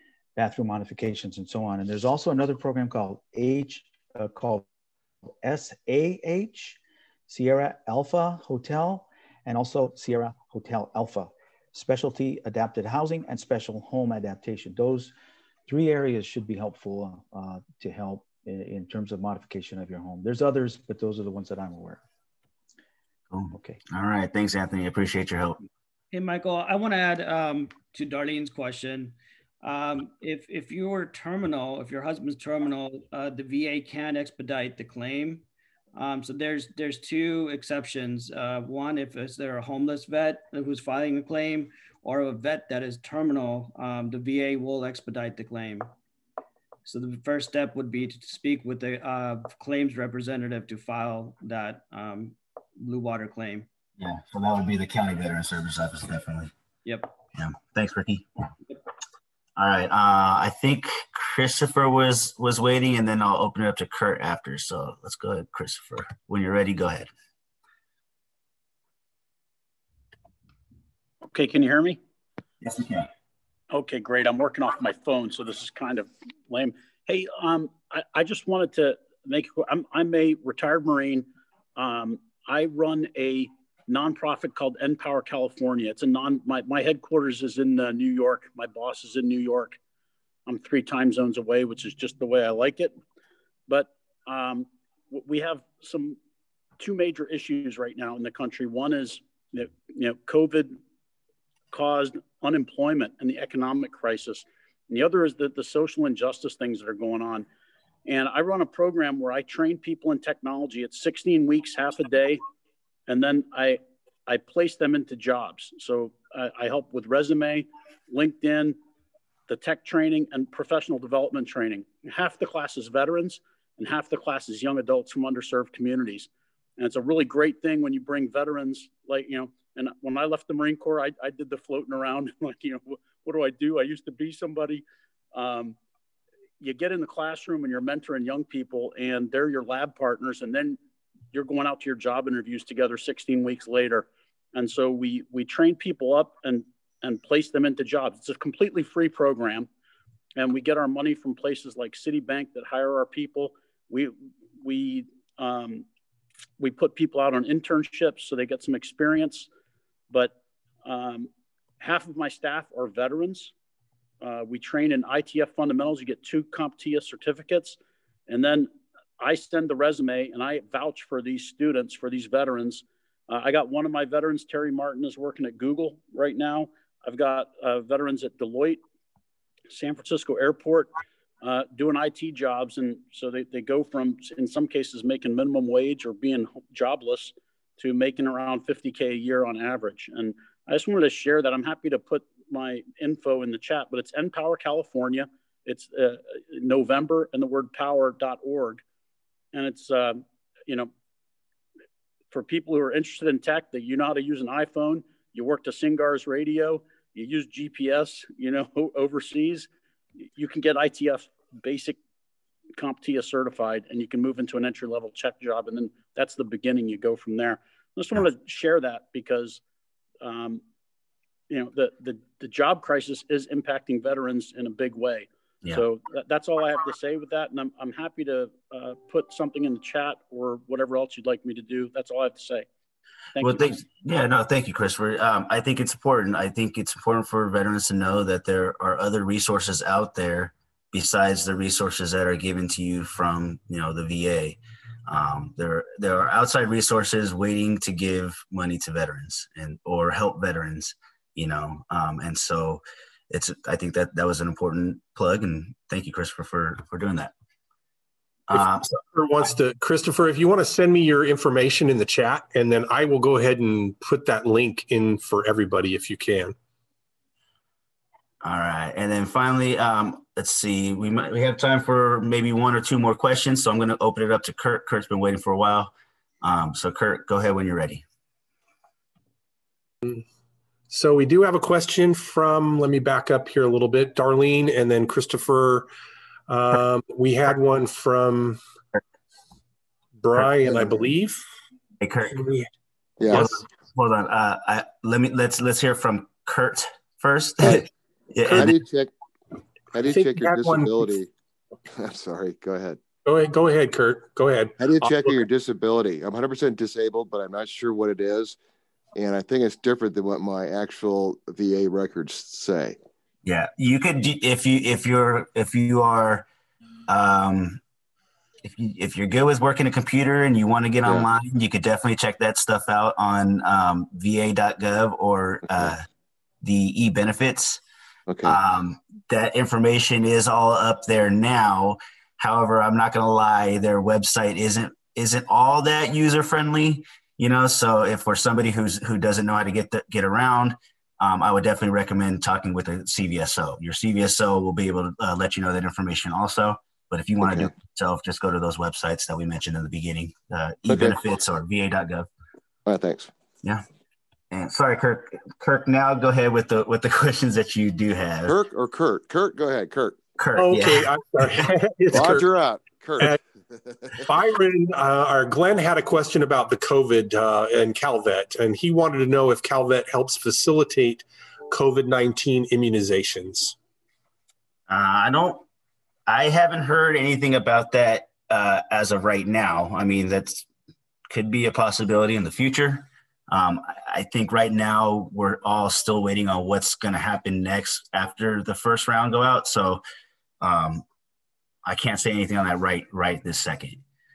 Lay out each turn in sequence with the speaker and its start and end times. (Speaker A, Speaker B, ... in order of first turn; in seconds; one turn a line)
Speaker A: 0.3-4.6
Speaker A: 5.4-15.1
Speaker A: 15.7-22.0
Speaker B: 23.3-25.6
Speaker A: 23.5-23.8
Speaker C: 26.1-35.4
Speaker C: 35.9-45.9
Speaker C: 46.8-53.7
Speaker B: 54.0-56.5
Speaker C: 56.8-57.1
Speaker B: 57.3-58.2
Speaker B: 59.5-67.1
Speaker D: 71.2-72.0
Speaker B: 72.6-73.1
Speaker D: 73.7-89.8
Speaker D: 90.5-92.9
Speaker D: 93.7-96.2
Speaker D: 96.8-100.8
Speaker D: 101.7-107.5
Speaker D: 108.0-112.4
Speaker D: 113.1-118.8
Speaker D: 119.5-135.8
Speaker D: 136.6-140.8
Speaker D: 141.3-149.7
Speaker D: 150.4-155.8
Speaker D: 156.6-159.5
Speaker D: 160.1-163.5
Speaker D: 164.2-178.8
Speaker D: 179.7-198.8
Speaker D: 199.5-200.9
Speaker D: 202.3-209.7
Speaker D: 210.3-212.0
Speaker D: 212.8-219.6
Speaker D: 220.2-220.6
Speaker D: 221.5-232.7
Speaker D: 233.3-233.8
Speaker B: 233.4-257.3
Speaker B: 258.5-258.9
Speaker E: 258.9-266.5
Speaker B: 268.4-278.0
Speaker E: 280.9-285.9
Speaker E: 286.5-288.6
Speaker E: 290.2-291.4
Speaker B: 292.0-292.4
Speaker E: 292.3-292.7
Speaker F: 293.2-293.5
Speaker B: 293.3-298.8
Speaker F: 298.5-299.1
Speaker F: 299.9-301.3
Speaker E: 300.0-301.1
Speaker F: 301.9-303.0
Speaker E: 303.2-305.4
Speaker F: 304.8-308.6
Speaker F: 309.1-313.0
Speaker B: 313.4-316.5
Speaker B: 317.1-317.8
Speaker B: 318.6-326.1
Speaker B: 326.6-327.8
Speaker F: 328.3-328.6
Speaker B: 328.4-352.3
Speaker F: 347.4-347.7
Speaker F: 350.9-351.2
Speaker F: 352.9-353.3
Speaker B: 354.5-358.5
Speaker F: 358.4-360.2
Speaker B: 360.4-361.6
Speaker E: 360.5-362.4
Speaker F: 362.1-363.4
Speaker E: 364.2-373.8
Speaker B: 374.9-375.6
Speaker B: 376.3-380.6
Speaker B: 381.3-390.0
Speaker B: 390.6-391.0
Speaker B: 391.8-394.0